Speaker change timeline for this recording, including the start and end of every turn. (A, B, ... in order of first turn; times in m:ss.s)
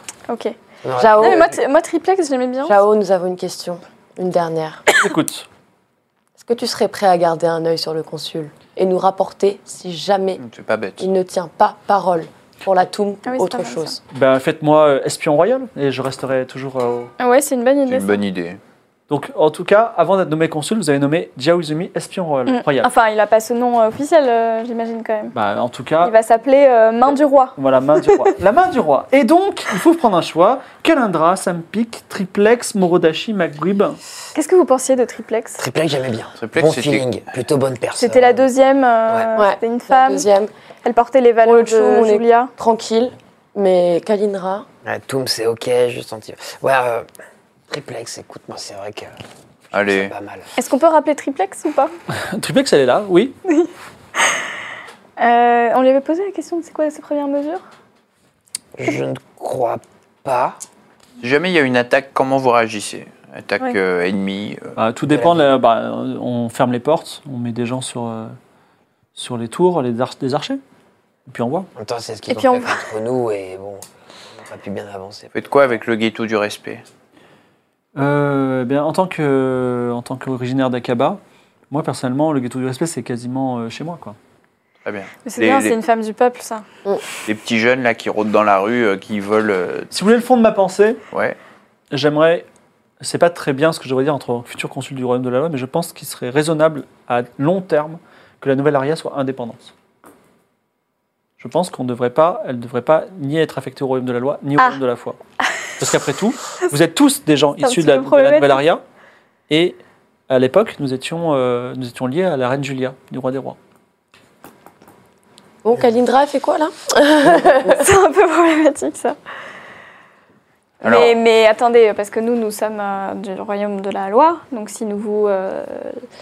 0:00.3-0:00.6 A
0:00.8-0:01.5 B
0:01.0-0:01.6 C
0:01.2-0:02.8 A
0:02.6-0:04.8 C
0:05.0-0:05.5 D
0:06.4-0:10.4 C
0:10.4-0:11.1 E
0:11.0-0:14.0 C
0:13.2-0:14.0 A
0:14.1-0:17.1 D
0:17.2-0:18.2 A
0:17.9-0:18.6 E
0:19.1-0:22.9 D
0:22.5-0:25.4 A
0:25.3-0:26.1 D
0:26.0-0:27.6 A
0:27.6-0:34.0 D
0:34.4-0:35.6 A
0:35.6-0:38.5 B
0:36.4-0:37.1 E
0:38.0-0:40.3 A
0:39.4-0:40.5 C
0:40.8-0:42.5 A
0:41.4-0:44.7 C
0:44.9-0:47.1 B
0:47.7-0:49.1 B
0:49.7-0:50.1 E
0:49.8-0:50.5 B
0:50.6-0:51.9 A
0:52.3-0:53.4 D
0:53.5-0:54.4 A
0:55.2-0:57.6 A
0:58.8-1:00.6 B
1:01.2-1:04.8 E
1:04.8-1:08.4 D
1:05.0-1:05.4 B
1:09.2-1:10.6 D
1:11.3-1:11.7 D
1:11.8-1:13.8 B
1:12.3-1:12.8 A
1:14.3-1:15.4 B
1:15.4-1:16.8 E
1:18.0-1:21.2 D
1:21.7-1:24.2 D
1:24.8-1:25.8 E
1:25.2-1:26.6 A
1:27.3-1:29.9 E
1:29.9-1:31.0 D
1:31.1-1:31.4 E
1:31.9-1:32.5 D
1:33.0-1:39.7 D
1:41.4-1:45.2 D
1:45.8-1:48.8 D
1:47.6-1:48.6 A
1:49.5-1:49.8 D
1:50.3-1:53.6 D
1:55.6-1:57.9 C
1:57.6-1:59.2 A
2:00.8-2:06.0 A
2:00.8-2:01.2 E